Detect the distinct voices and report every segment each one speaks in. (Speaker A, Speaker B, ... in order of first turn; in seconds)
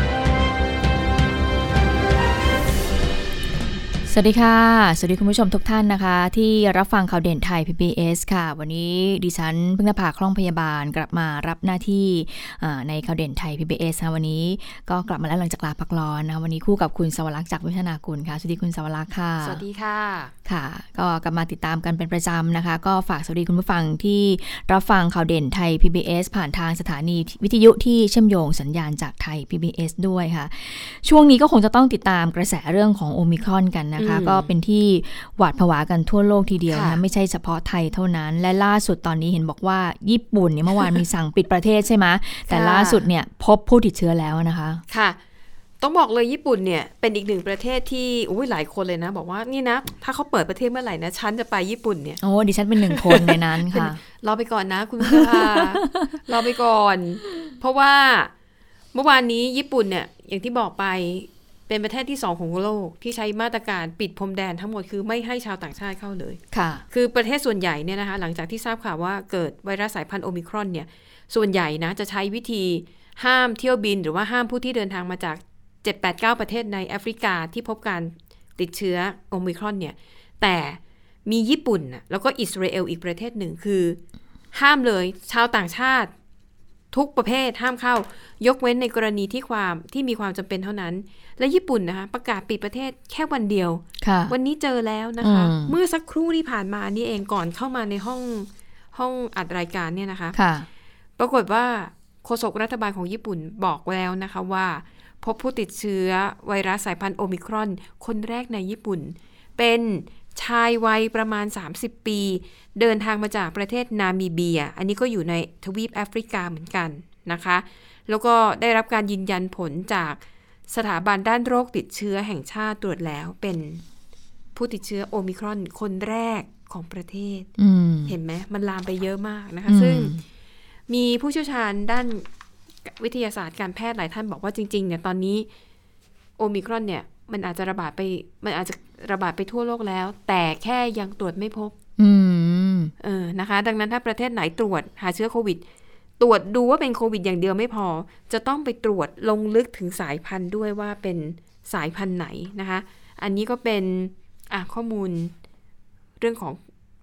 Speaker A: 4.1-19.6, 20.5-44.8, 52.2-54.0, 55.0-56.2, 66.5-66.8, 94.0-94.3, 95.2-95.8, 100.3-100.7, 127.6-128.2, 129.7-130.2, 142.0-142.9
Speaker B: 19.4-20.3, 34.0-34.5, 36.7-37.0, 42.5-43.0, 44.9-45.2, 45.8-52.2, 52.9-58.3, 58.9-66.4, 66.9-84.0, 84.5-86.1, 86.9-100.4, 101.2-123.8, 124.5-127.5, 128.1-130.1, 130.9-132.3, 132.8-135.5, 136.4-141.8, 143.0-145.6, 146.2-155.3, 156.2-156.6